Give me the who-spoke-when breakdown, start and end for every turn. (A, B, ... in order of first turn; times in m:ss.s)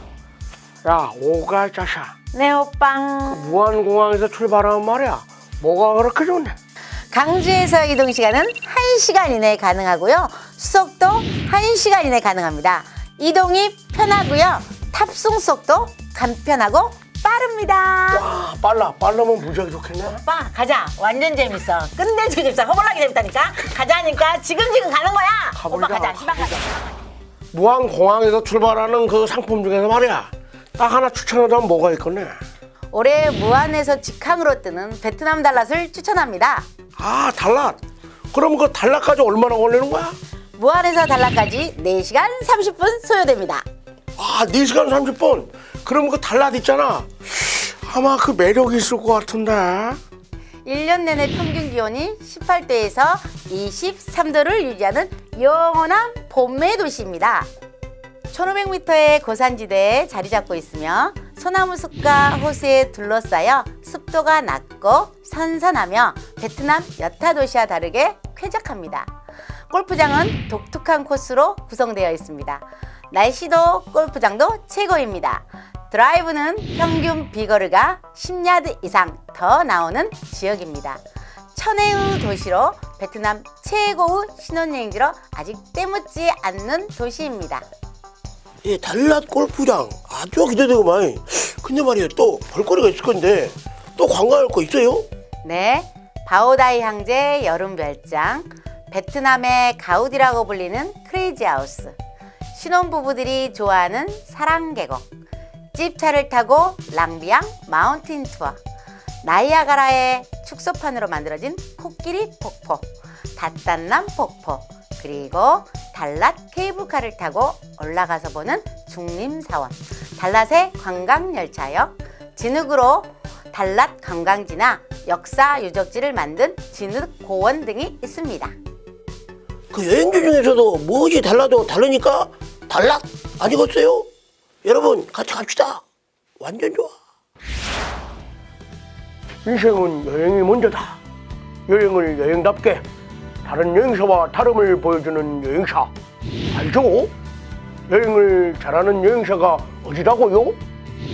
0:00.8-0:02.2 A
0:02.3-0:03.6 B
0:03.3-0:06.6 A
0:07.1-0:18.3 B
0:18.1-0:20.2 A
0:20.2-0:27.0 B
0:25.5-0:26.6 A
0:27.5-0:32.4 A
0:32.9-0:36.7 B
0:37.0-0:37.8 A
0:38.3-0:40.2 A
0:40.6-0:43.7 B
0:44.2-0:50.0 A
0:50.6-0:57.5 B
0:58.3-1:09.1 B
1:09.7-1:21.0 B
1:21.6-1:27.7 B
1:28.6-1:35.1 A
1:35.4-1:42.0 B
1:42.5-1:45.1 B
1:45.7-1:48.6 B
1:49.2-2:08.5 B
2:09.7-2:14.1 A
2:14.6-2:15.8 A
2:16.4-2:17.0 A
2:19.4-2:21.0 A
2:21.7-2:22.8 A
2:23.4-2:25.9 A
2:26.5-2:27.1 A
2:27.9-2:30.6 A